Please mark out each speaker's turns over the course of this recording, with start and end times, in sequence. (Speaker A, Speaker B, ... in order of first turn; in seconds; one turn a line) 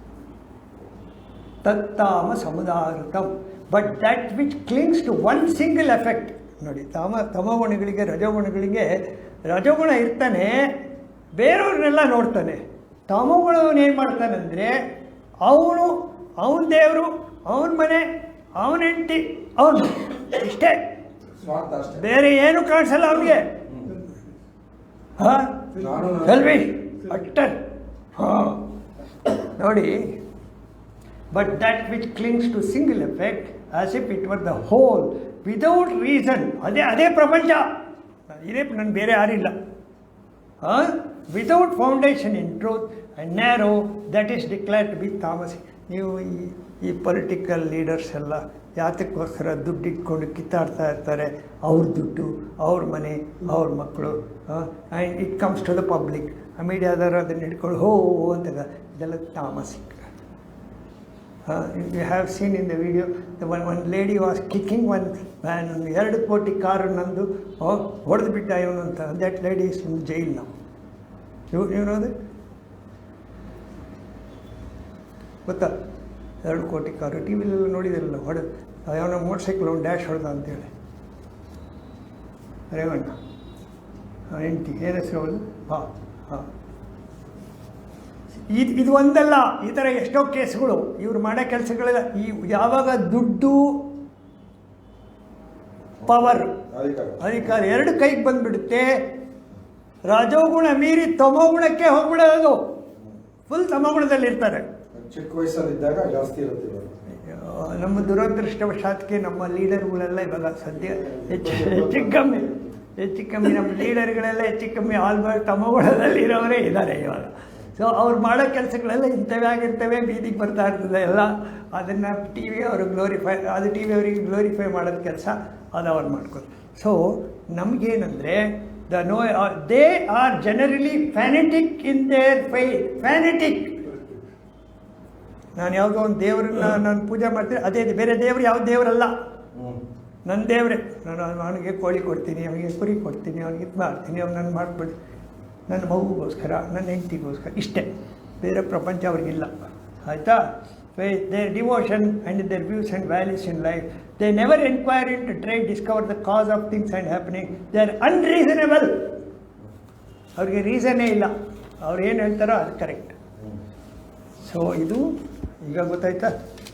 Speaker A: 1.6-10.7
Speaker A: 11.4-14.8
Speaker A: 15.4-18.1
Speaker A: 18.6-20.8
Speaker B: 21.4-22.0
Speaker A: 21.9-23.6
Speaker B: 23.7-23.9
Speaker A: 25.2-27.6
Speaker B: 25.8-26.6
Speaker A: 28.1-28.7
Speaker A: 29.3-30.2
Speaker A: 31.3-37.7
Speaker A: 38.3-39.5
Speaker A: 40.6-60.1
Speaker A: 61.5-70.5
Speaker A: 71.5-72.1
Speaker A: 75.5-75.7
Speaker A: 76.4-80.7
Speaker A: 82.7-83.2
Speaker A: 84.3-86.5
Speaker A: 88.5-93.9
Speaker A: 96.0-96.6
Speaker B: 96.7-97.2
Speaker A: 97.2-98.9
Speaker A: 100.1-102.6
Speaker A: 103.5-104.7
Speaker B: 104.9-106.9
Speaker A: 107.1-134.0
Speaker B: 111.1-112.7
Speaker A: 135.6-139.1
Speaker B: 139.6-139.8
Speaker A: 140.3-144.9
Speaker A: 145.7-150.4
Speaker A: 150.9-159.2
Speaker A: 160.4-163.2
Speaker A: 164.4-166.3